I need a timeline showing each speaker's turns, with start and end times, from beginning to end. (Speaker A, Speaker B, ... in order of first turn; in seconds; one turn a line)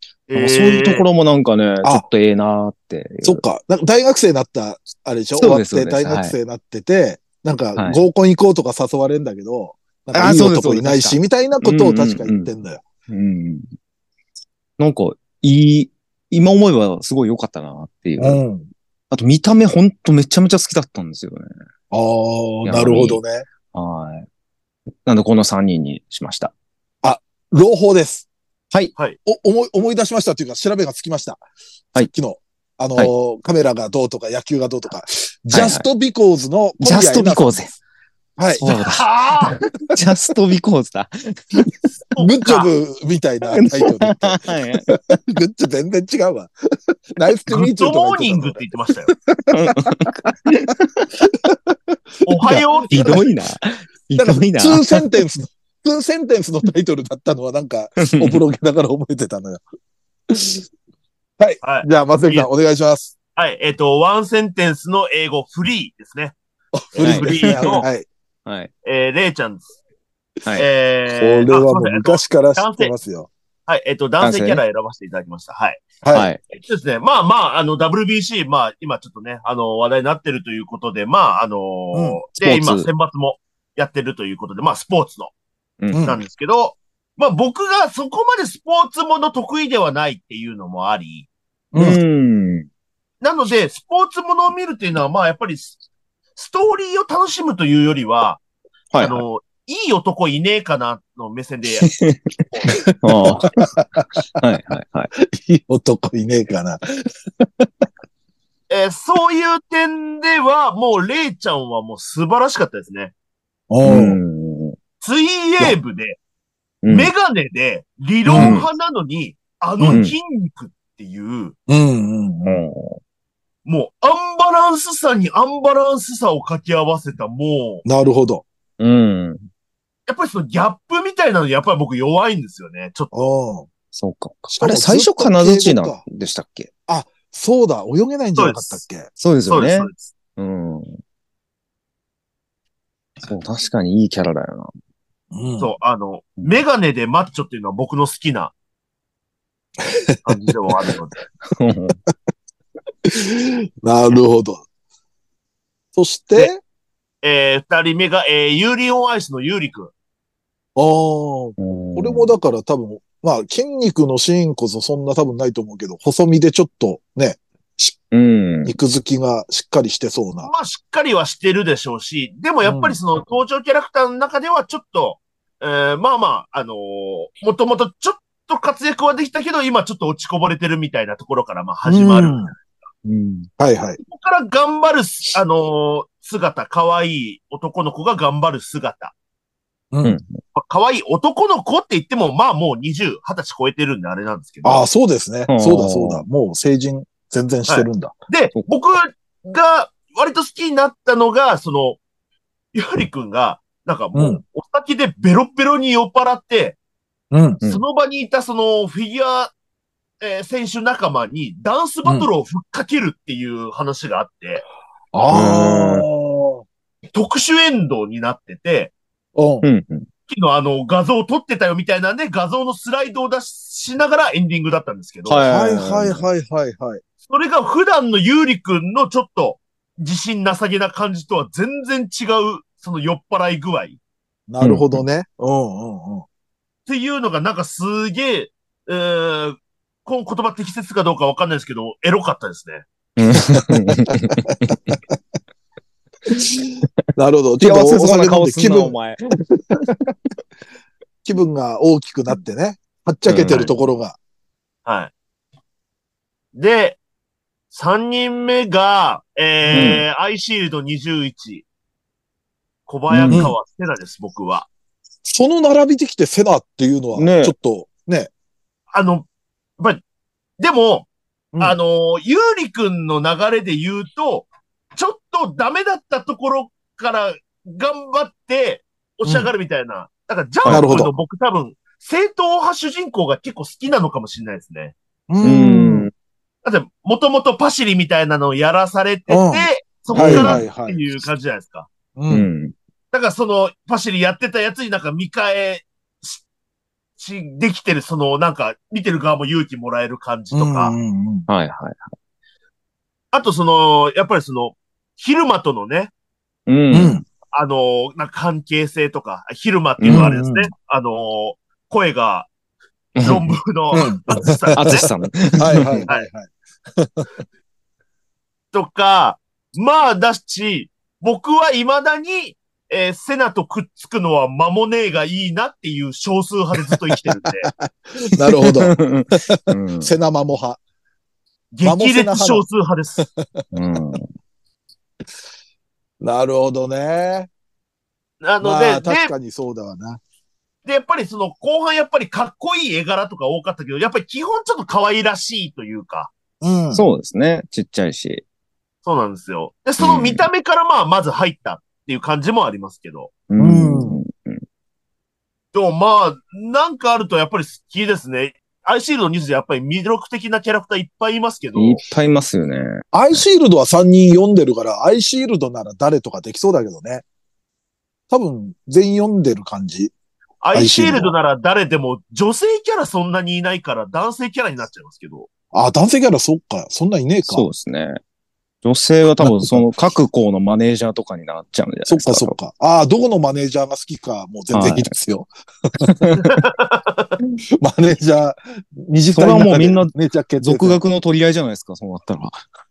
Speaker A: 0.3-1.1
Speaker B: 0.4-3.4
Speaker C: 3.2-12.8
Speaker B: 5.4-6.4
Speaker B: 7.8-8.0
Speaker B: 10.1-12.5
Speaker B: 13.1-13.7
Speaker B: 14.8-18.4
Speaker C: 18.2-18.7
Speaker B: 19.1-21.5
Speaker C: 21.9-23.4
Speaker B: 22.6-23.2
Speaker B: 23.7-24.3
Speaker B: 25.1-26.5
Speaker C: 27.0-28.3
Speaker C: 29.2-31.4
Speaker C: 32.0-37.7
Speaker B: 35.5-35.9
Speaker B: 36.8-37.7
Speaker C: 38.4-38.7
Speaker B: 38.6-41.7
Speaker A: 38.7-39.6
Speaker A: 42.1-42.7
Speaker C: 42.2-50.2
Speaker B: 43.5-45.0
Speaker A: 47.5-49.1
Speaker B: 49.5-51.3
Speaker C: 51.5-53.3
Speaker A: 52.2-53.2
Speaker B: 52.5-55.1
Speaker C: 54.2-59.6
Speaker B: 58.0-58.4
Speaker C: 60.3-60.6
Speaker C: 61.4-63.1
Speaker A: 61.6-62.5
Speaker A: 63.4-66.4
Speaker C: 66.9-68.1
Speaker A: 67.0-67.9
Speaker B: 67.0-67.9
Speaker B: 68.5-68.7
Speaker A: 68.8-69.7
Speaker A: 70.6-72.9
Speaker C: 71.1-73.3
Speaker A: 73.7-75.8
Speaker B: 74.2-74.6
Speaker C: 76.0-76.3
Speaker B: 76.1-76.4
Speaker A: 76.5-85.3
Speaker C: 81.9-82.2
Speaker B: 82.4-82.9
Speaker C: 85.9-86.2
Speaker A: 86.0-91.3
Speaker C: 91.7-92.0
Speaker B: 91.8-92.7
Speaker A: 93.2-95.8
Speaker A: 96.4-98.4
Speaker B: 98.9-99.2
Speaker A: 99.0-101.9
Speaker B: 101.8-103.6
Speaker C: 103.1-104.1
Speaker B: 104.4-105.1
Speaker C: 105.3-107.9
Speaker A: 108.7-113.1
Speaker C: 113.7-114.2
Speaker B: 113.8-114.8
Speaker A: 115.0-116.2
Speaker B: 116.8-117.1
Speaker A: 116.9-121.5
Speaker C: 118.3-118.6
Speaker B: 118.3-118.7
Speaker B: 119.9-120.2
Speaker C: 121.7-122.6
Speaker B: 122.5-123.0
Speaker A: 123.7-127.8
Speaker C: 127.8-128.4
Speaker B: 128.8-129.4
Speaker A: 130.1-133.1
Speaker C: 133.1-133.7
Speaker B: 133.9-136.7
Speaker C: 134.5-136.0
Speaker C: 136.9-139.1
Speaker A: 138.4-138.8
Speaker B: 139.2-141.0
Speaker A: 139.5-140.1
Speaker B: 143.2-144.7
Speaker C: 145.3-145.7
Speaker A: 145.6-148.5
Speaker C: 149.8-150.5
Speaker A: 150.2-151.2
Speaker B: 151.5-152.0
Speaker C: 153.1-154.7
Speaker C: 155.9-156.6
Speaker A: 157.2-159.9
Speaker C: 160.8-168.0
Speaker B: 161.6-162.3
Speaker B: 168.1-168.8
Speaker C: 168.7-170.5
Speaker A: 170.4-182.6
Speaker C: 172.6-173.0
Speaker C: 181.8-182.5
Speaker B: 183.1-183.5
Speaker C: 183.6-184.0
Speaker A: 184.0-189.1
Speaker C: 189.9-190.2
Speaker B: 190.0-190.4
Speaker A: 190.6-194.8
Speaker C: 194.6-198.1
Speaker B: 195.5-196.2
Speaker A: 197.7-202.0
Speaker A: 202.7-206.8
Speaker C: 204.2-204.4
Speaker C: 207.3-207.6
Speaker A: 207.7-209.5
Speaker A: 210.2-214.7
Speaker C: 215.1-216.6
Speaker B: 215.3-216.1
Speaker A: 217.1-218.9
Speaker C: 219.4-219.7
Speaker B: 219.6-220.1
Speaker A: 220.3-225.5
Speaker B: 225.3-226.3
Speaker C: 225.5-227.0
Speaker A: 227.3-234.0
Speaker C: 234.5-236.3
Speaker B: 234.6-235.0
Speaker A: 236.9-242.8
Speaker B: 243.2-245.0
Speaker C: 243.3-245.1
Speaker C: 246.3-249.0
Speaker B: 247.6-249.9
Speaker C: 251.2-254.2
Speaker B: 253.3-253.7
Speaker A: 254.9-255.1
Speaker A: 256.6-257.0
Speaker A: 257.7-261.6
Speaker B: 259.7-260.1
Speaker A: 262.9-264.7
Speaker B: 263.1-263.5
Speaker C: 263.3-263.6
Speaker C: 265.3-268.3
Speaker B: 267.2-267.6
Speaker A: 268.9-269.3
Speaker A: 270.6-271.1
Speaker A: 271.6-284.9
Speaker C: 279.3-279.5
Speaker B: 280.6-280.9
Speaker C: 280.7-281.1
Speaker C: 285.3-286.1
Speaker B: 285.4-286.1
Speaker A: 286.6-291.9
Speaker C: 289.3-291.0
Speaker B: 290.1-290.7
Speaker C: 292.2-292.5
Speaker B: 292.3-292.7
Speaker A: 293.1-296.4
Speaker A: 297.2-300.9
Speaker C: 300.5-301.5
Speaker B: 301.5-302.1
Speaker A: 303.3-306.1
Speaker B: 306.7-307.2
Speaker C: 306.9-307.2
Speaker A: 307.5-312.5
Speaker B: 310.0-310.3
Speaker C: 310.1-310.7
Speaker B: 313.2-313.6
Speaker A: 313.2-315.1
Speaker C: 313.9-315.1
Speaker B: 314.8-316.1
Speaker C: 315.6-317.3
Speaker A: 318.7-327.7
Speaker C: 326.9-330.8
Speaker B: 328.6-330.1
Speaker A: 331.7-333.2
Speaker C: 331.8-332.6
Speaker C: 333.2-333.6
Speaker B: 333.7-334.3
Speaker C: 336.2-337.5
Speaker A: 338.4-339.3
Speaker C: 338.6-340.2
Speaker A: 340.9-346.3
Speaker C: 346.6-347.0
Speaker B: 346.9-348.4
Speaker A: 349.1-353.3
Speaker B: 350.0-350.5
Speaker B: 353.5-354.6
Speaker C: 353.6-354.2
Speaker A: 355.7-362.0
Speaker B: 361.8-363.4
Speaker C: 363.1-367.2
Speaker C: 368.3-370.1
Speaker A: 370.6-375.5
Speaker C: 370.7-371.3
Speaker C: 375.7-377.7
Speaker B: 377.4-378.2
Speaker B: 378.8-382.6
Speaker C: 379.4-379.9
Speaker C: 382.1-386.3
Speaker B: 384.7-385.1
Speaker B: 386.0-386.6
Speaker A: 386.4-387.3
Speaker C: 387.8-391.0
Speaker B: 389.4-392.6